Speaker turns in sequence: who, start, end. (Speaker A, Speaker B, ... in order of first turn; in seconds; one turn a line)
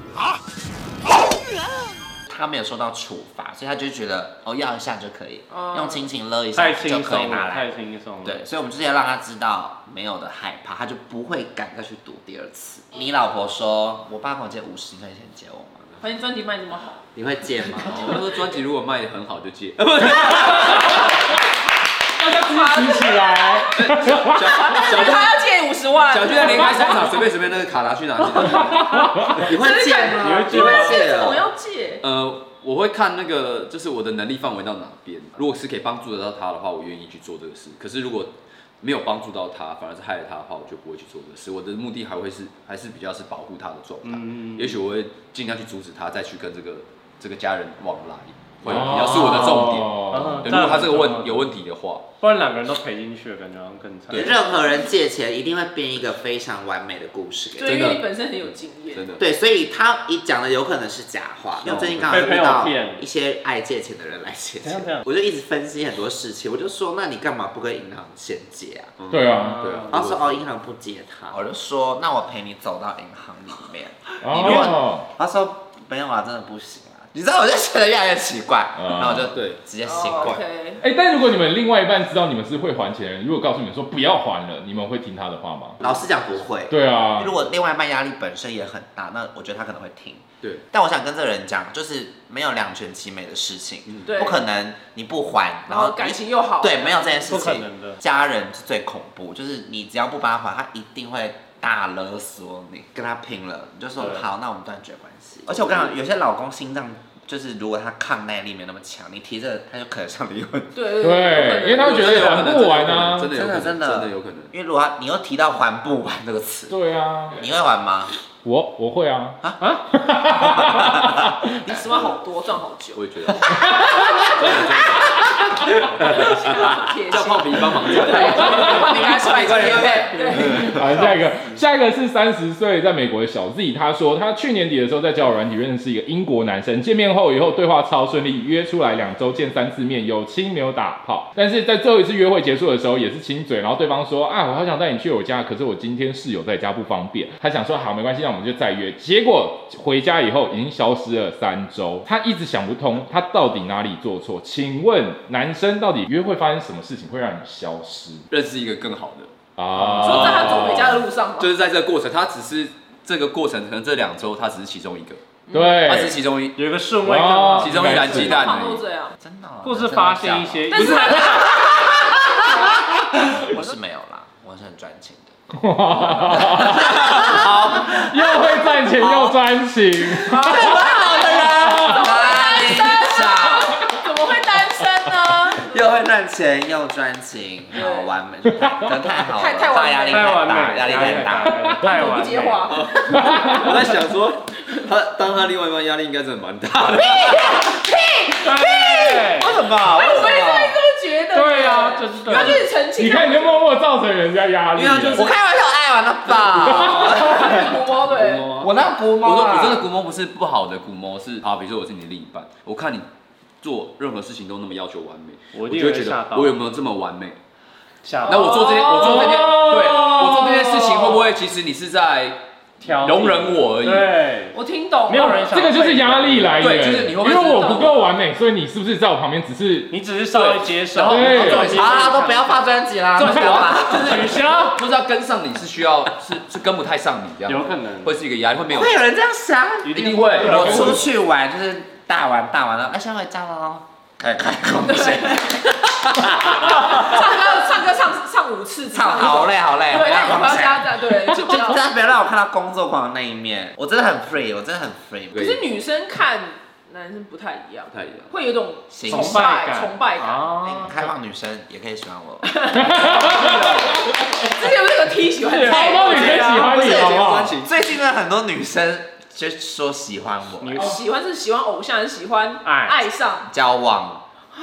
Speaker A: 2.3-7.7
Speaker B: 5.5-6.1
Speaker C: 6.5-8.4
Speaker A: 8.2-15.9
Speaker B: 16.0-17.0
Speaker A: 17.1-18.2
Speaker D: 17.8-21.1
Speaker E: 20.6-21.1
Speaker E: 22.2-24.6
Speaker B: 22.2-23.7
Speaker D: 23.7-25.4
Speaker B: 24.2-27.1
Speaker D: 26.1-29.1
Speaker E: 26.5-26.8
Speaker E: 28.4-29.4
Speaker A: 29.3-31.4
Speaker B: 29.4-32.0
Speaker C: 30.2-31.0
Speaker D: 32.0-52.0
Speaker C: 44.0-44.7
Speaker E: 48.6-50.7
Speaker C: 50.1-51.4
Speaker C: 52.2-54.5
Speaker A: 54.1-58.0
Speaker B: 57.5-59.2
Speaker D: 57.6-59.2
Speaker A: 59.2-68.9
Speaker D: 61.6-62.2
Speaker C: 61.8-63.0
Speaker C: 64.6-65.0
Speaker D: 69.0-70.2
Speaker E: 69.1-69.6
Speaker C: 69.4-69.9
Speaker A: 69.9-80.4
Speaker E: 74.2-75.1
Speaker C: 74.3-74.8
Speaker E: 78.8-79.3
Speaker D: 79.3-79.6
Speaker B: 79.8-80.8
Speaker E: 80.8-85.8
Speaker A: 85.8-110.7
Speaker E: 86.7-87.3
Speaker B: 94.1-94.4
Speaker B: 95.7-97.3
Speaker C: 97.3-98.0
Speaker C: 104.0-104.2
Speaker D: 105.5-105.9
Speaker B: 110.7-112.4
Speaker E: 111.0-113.3
Speaker D: 111.8-114.5
Speaker A: 113.3-116.7
Speaker E: 116.7-117.4
Speaker A: 117.3-118.1
Speaker E: 118.4-119.4
Speaker E: 119.9-121.4
Speaker A: 120.4-122.1
Speaker B: 121.6-131.1
Speaker D: 122.9-123.6
Speaker E: 123.7-124.3
Speaker D: 124.2-131.0
Speaker E: 130.3-158.2
Speaker D: 158.3-159.3
Speaker E: 159.6-161.0
Speaker D: 160.0-160.7
Speaker B: 160.0-161.5
Speaker D: 161.4-165.2
Speaker B: 165.5-165.8
Speaker E: 165.5-166.2
Speaker D: 165.8-166.6
Speaker C: 166.6-167.9
Speaker E: 167.0-168.5
Speaker D: 167.6-168.8
Speaker B: 167.8-169.2
Speaker A: 169.2-179.3
Speaker C: 169.6-171.5
Speaker B: 170.7-173.0
Speaker D: 170.8-171.2
Speaker E: 175.6-182.2
Speaker A: 180.0-183.8
Speaker B: 180.2-185.8
Speaker A: 185.5-191.6
Speaker B: 187.7-188.1
Speaker E: 188.5-188.8
Speaker B: 189.3-190.4
Speaker C: 190.1-192.8
Speaker E: 191.5-191.8
Speaker B: 191.8-193.7
Speaker D: 192.7-197.6
Speaker E: 193.1-193.7
Speaker B: 197.0-198.6
Speaker A: 197.1-200.8
Speaker C: 198.4-199.5
Speaker B: 199.8-203.6
Speaker C: 201.3-202.7
Speaker E: 202.9-205.3
Speaker D: 204.8-205.3
Speaker A: 205.1-207.7
Speaker E: 206.6-207.4
Speaker B: 206.7-208.6
Speaker D: 207.2-213.1
Speaker A: 208.6-209.8
Speaker D: 213.6-217.4
Speaker C: 215.5-216.6
Speaker C: 218.0-218.9
Speaker D: 218.2-224.1
Speaker E: 218.8-221.3
Speaker C: 222.8-224.6
Speaker B: 224.5-225.5
Speaker C: 225.1-226.7
Speaker E: 225.1-229.9
Speaker D: 226.6-227.9
Speaker C: 229.9-232.7
Speaker D: 230.3-232.1
Speaker E: 231.0-231.7
Speaker A: 231.5-234.4
Speaker D: 233.1-239.0
Speaker C: 233.5-234.8
Speaker C: 237.4-238.1
Speaker A: 238.7-247.6
Speaker C: 239.8-241.1
Speaker D: 239.9-241.0
Speaker B: 244.9-245.6
Speaker B: 246.4-251.8
Speaker A: 248.9-255.4
Speaker D: 255.3-255.6
Speaker B: 255.3-260.5
Speaker D: 257.9-258.3
Speaker A: 258.9-259.5
Speaker C: 259.1-261.0
Speaker A: 260.6-262.6
Speaker B: 262.4-266.2
Speaker E: 262.8-264.7
Speaker D: 263.0-263.9
Speaker E: 265.5-267.5
Speaker A: 265.6-270.9
Speaker C: 265.8-266.9
Speaker D: 266.1-267.7
Speaker C: 270.6-270.9
Speaker B: 270.8-273.5
Speaker C: 272.6-273.0
Speaker A: 273.5-274.2